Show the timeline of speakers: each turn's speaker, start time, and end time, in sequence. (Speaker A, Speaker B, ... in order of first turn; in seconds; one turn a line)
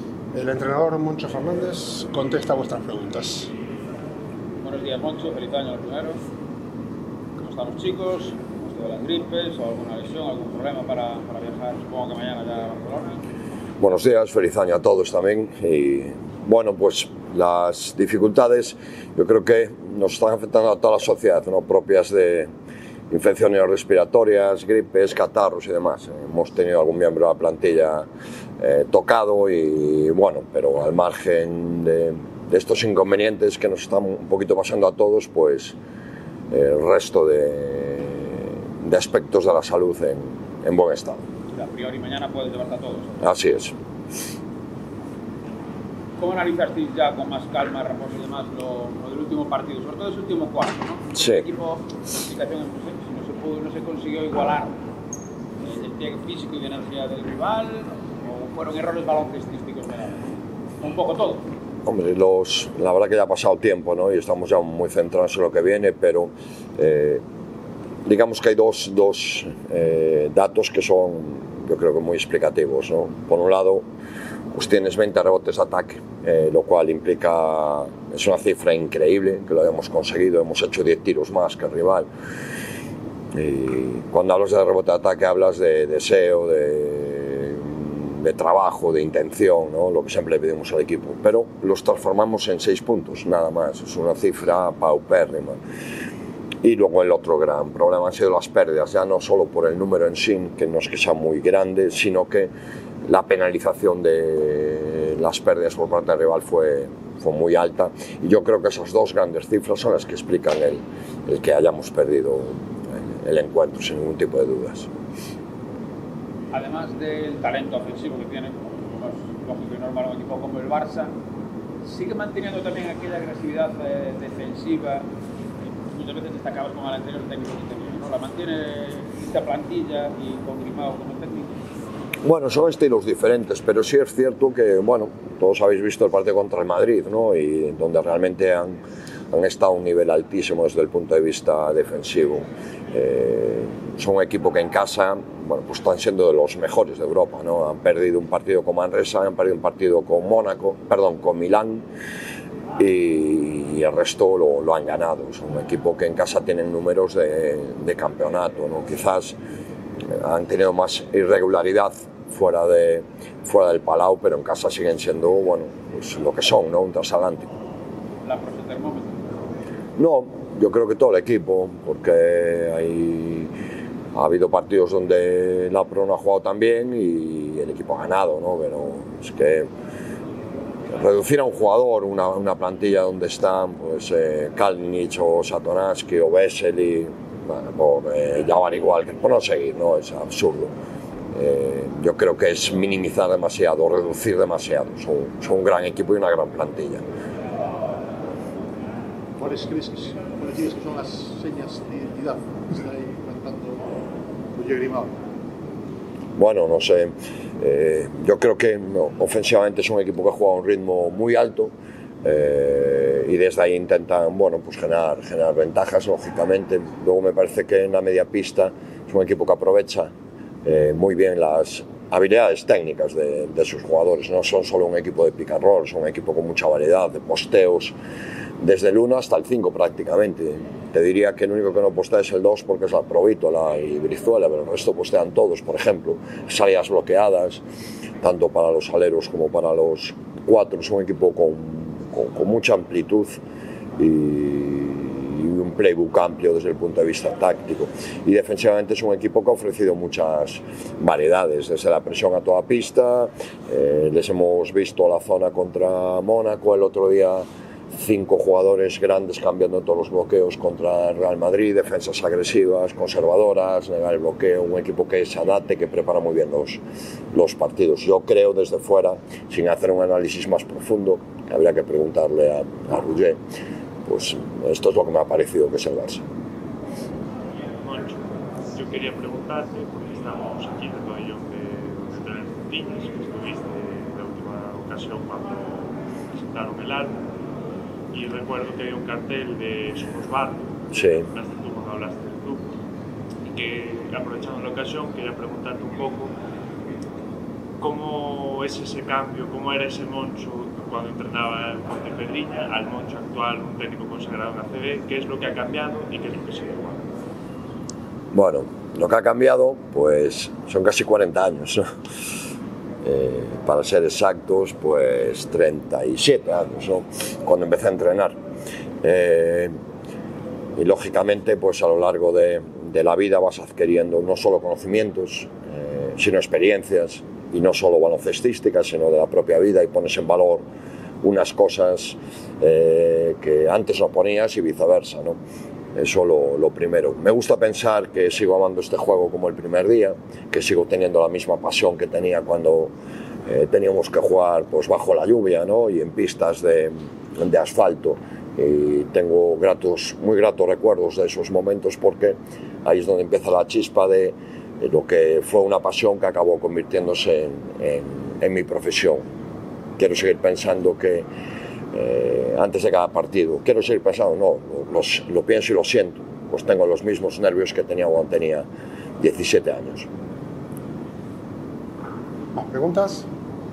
Speaker A: 0.3-3.5
Speaker B: 4.6-6.2
Speaker B: 7.4-13.2
Speaker C: 13.8-22.5
Speaker C: 23.1-28.1
Speaker C: 28.6-35.8
Speaker C: 36.5-41.2
Speaker B: 41.5-43.2
Speaker C: 43.2-43.7
Speaker B: 46.2-54.8
Speaker C: 51.1-51.4
Speaker B: 55.6-61.5
Speaker C: 61.8-67.2
Speaker C: 68.0-73.8
Speaker C: 74.5-82.1
Speaker C: 83.3-95.6
Speaker C: 96.6-102.5
Speaker C: 103.0-114.9
Speaker B: 116.5-121.1
Speaker B: 121.8-125.0
Speaker B: 125.8-131.6
Speaker C: 132.2-138.8
Speaker C: 139.3-151.8
Speaker C: 152.8-159.3
Speaker C: 160.0-167.5
Speaker B: 168.2-169.4
Speaker C: 170.0-173.5
Speaker C: 174.1-179.7
Speaker C: 180.9-190.7
Speaker C: 191.3-197.0
Speaker D: 199.4-204.0
Speaker D: 204.5-205.1
Speaker C: 206.3-220.1
Speaker C: 220.6-227.9
Speaker C: 228.6-237.6
Speaker C: 238.2-243.4
Speaker C: 244.0-266.8
Speaker C: 267.3-273.4
Speaker C: 274.1-276.2
Speaker E: 277.8-278.2
Speaker E: 278.7-287.2
Speaker E: 288.1-292.6
Speaker C: 290.9-291.3
Speaker E: 293.4-296.3
Speaker E: 297.8-307.1
Speaker C: 308.3-311.8
Speaker C: 313.0-318.4
Speaker C: 319.0-319.7
Speaker C: 320.8-330.6
Speaker C: 331.2-335.4
Speaker C: 335.9-342.9
Speaker C: 343.5-359.2
Speaker C: 360.0-361.3
Speaker C: 361.9-368.6
Speaker C: 369.2-370.1
Speaker A: 372.5-373.3